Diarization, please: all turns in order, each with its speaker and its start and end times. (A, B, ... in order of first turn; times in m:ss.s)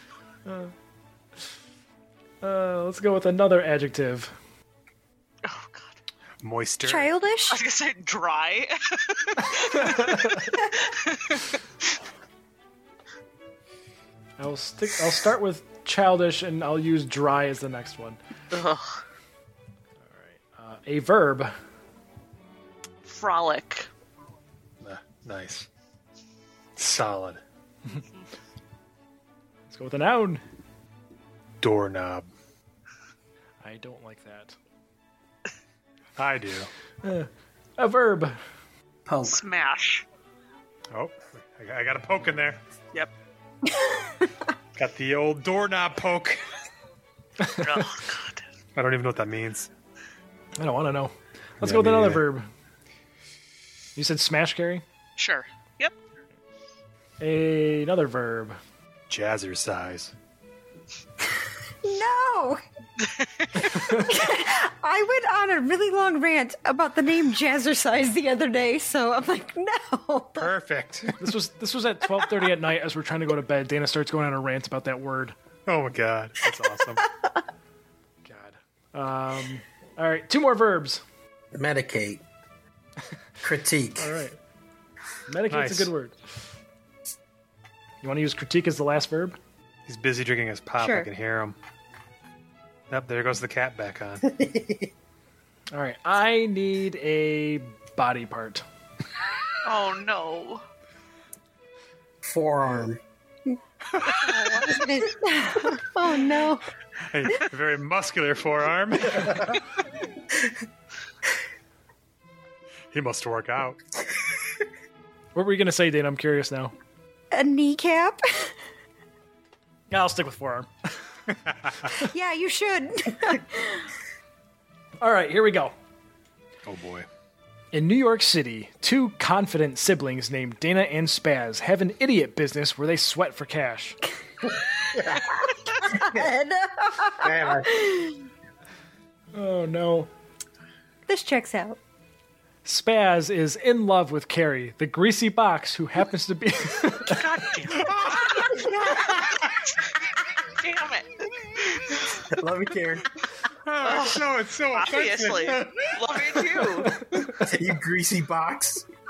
0:00.5-0:00.7 A
0:02.4-0:04.3 A
0:05.4-0:05.9 B
0:06.4-0:07.2 C
0:06.8-0:07.6 D
0:07.5-0:10.4 B
0:09.9-0:10.4 A
0:11.1-0:11.4 B
0:14.4-0:18.2 A
0:18.5-0:19.0 B
0:20.0-0:21.5 A
0:23.1-0:23.9 B
0:24.8-0:25.7 C
0:26.8-0:27.4 C
0:29.7-0:30.4 A
0:31.6-0:32.3 C
0:33.6-0:34.6 A
0:36.2-0:36.7 C
0:37.0-0:38.4 A
0:39.1-0:39.4 E
0:39.2-0:40.0 B
0:40.9-0:42.6 C
0:44.8-0:46.4 C
0:47.6-0:48.4 B
0:48.8-0:49.7 C
0:50.6-0:52.5 A
0:51.6-0:52.2 C
0:54.0-0:54.8 A
0:55.2-0:55.9 B
0:57.2-0:58.6 A
0:59.1-1:00.1 C
1:01.8-1:02.6 D
1:03.4-1:03.9 B
1:03.7-1:10.5 D
1:10.4-1:11.1 C
1:11.2-1:15.3 A
1:15.7-1:17.1 C
1:18.2-1:21.0 A
1:21.6-1:22.2 E
1:23.4-1:24.1 E
1:24.0-1:24.4 A
1:25.3-1:26.2 A
1:25.5-1:25.9 C
1:28.0-1:29.4 A
1:29.9-1:31.6 C
1:30.8-1:31.1 D
1:32.9-1:34.2 C
1:34.3-1:34.9 E
1:35.7-1:38.6 A
1:39.6-1:40.6 B
1:42.2-1:43.0 E
1:44.2-1:44.8 B
1:44.2-1:46.6 D
1:47.1-1:49.6 C
1:52.9-1:53.8 C
1:55.3-1:56.7 A
1:57.3-1:58.5 D
1:59.9-2:00.7 A
2:01.9-2:03.9 D
2:05.0-2:05.8 A
2:06.7-2:07.1 C
2:07.7-2:14.0 A
2:14.7-2:16.3 E
2:15.8-2:18.2 D
2:17.2-2:17.9 E
2:19.3-2:20.1 A
2:21.1-2:21.8 D
2:22.6-2:27.2 A
2:27.1-2:29.4 B
2:27.7-2:29.6 C
2:30.6-2:32.1 B
2:32.3-2:33.0 E
2:33.6-2:36.4 C
2:33.8-2:36.9 B
2:36.6-2:37.4 A
2:37.4-2:38.9 E